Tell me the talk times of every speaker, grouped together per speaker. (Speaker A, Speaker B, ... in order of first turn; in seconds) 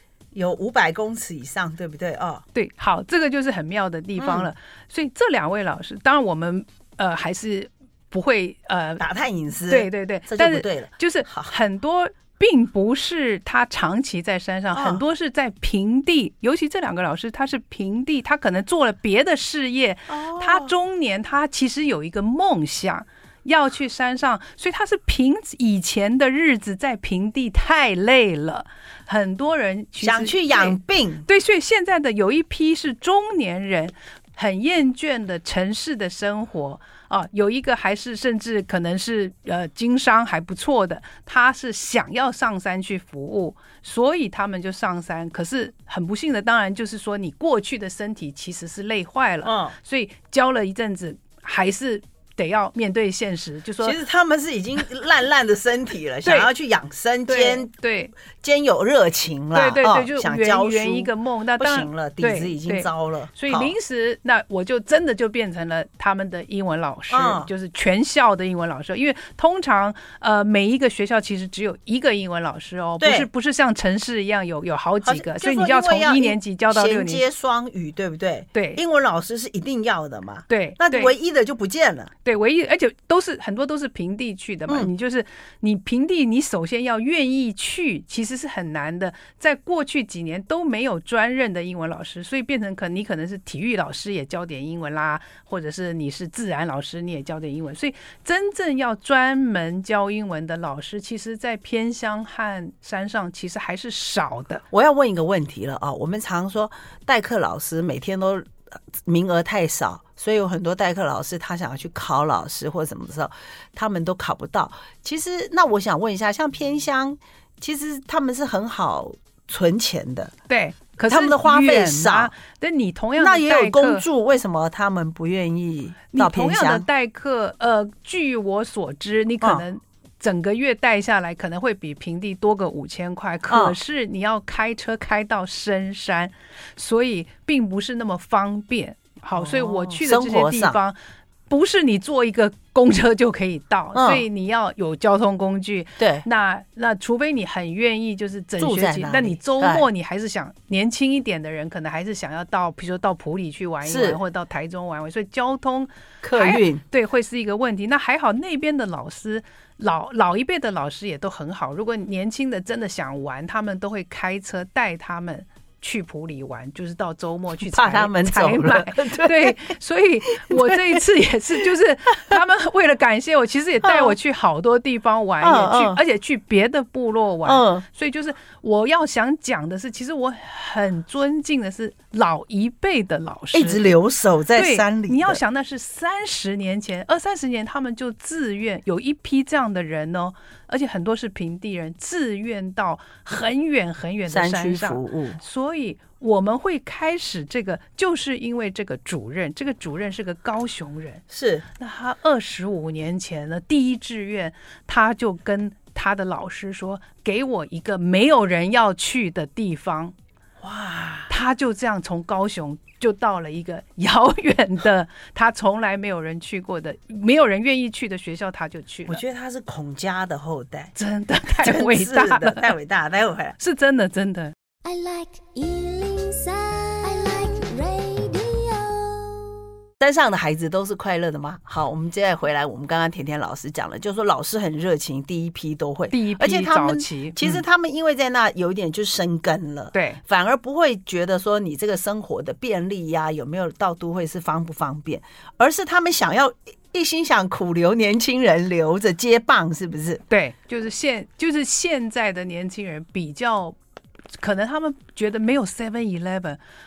Speaker A: 0.3-2.4, 4.2-4.5, 9.0-11.5, 14.7-15.0, 20.1-20.7, 30.0-31.2, 49.4-49.7, 53.8-57.7, 58.4-63.7, 67.1-67.5, 73.0-73.3, 75.0-82.1, 104.7-108.5, 109.0-120.3, 121.1-122.3, 123.2-126.8, 133.5-133.8, 139.3-140.8, 143.9-144.2, 146.0-146.2, 148.6-149.9, 153.8-154.2, 156.2-156.8, 167.7-169.7, 170.3-170.9, 173.8-174.1, 175.4-176.0, 177.4-177.8, 183.5-185.4, 194.3-195.4, 201.3-201.7, 210.6-211.3, 219.1-220.9, 221.5-223.6, 230.0-250.2
Speaker B: 2.5-9.0, 9.7-54.0, 56.2-56.5, 57.3-58.1, 59.5-77.2, 78.5-78.8, 80.5-81.1, 82.2-104.6, 120.5-124.0, 126.1-141.0, 141.5-183.9, 184.5-201.2, 201.7-210.1, 211.3-219.2, 220.9-222.7, 223.6-224.5, 236.1-237.6, 239.9-240.2, 250.3-253.8, 254.4-256.6
Speaker C: 224.8-229.5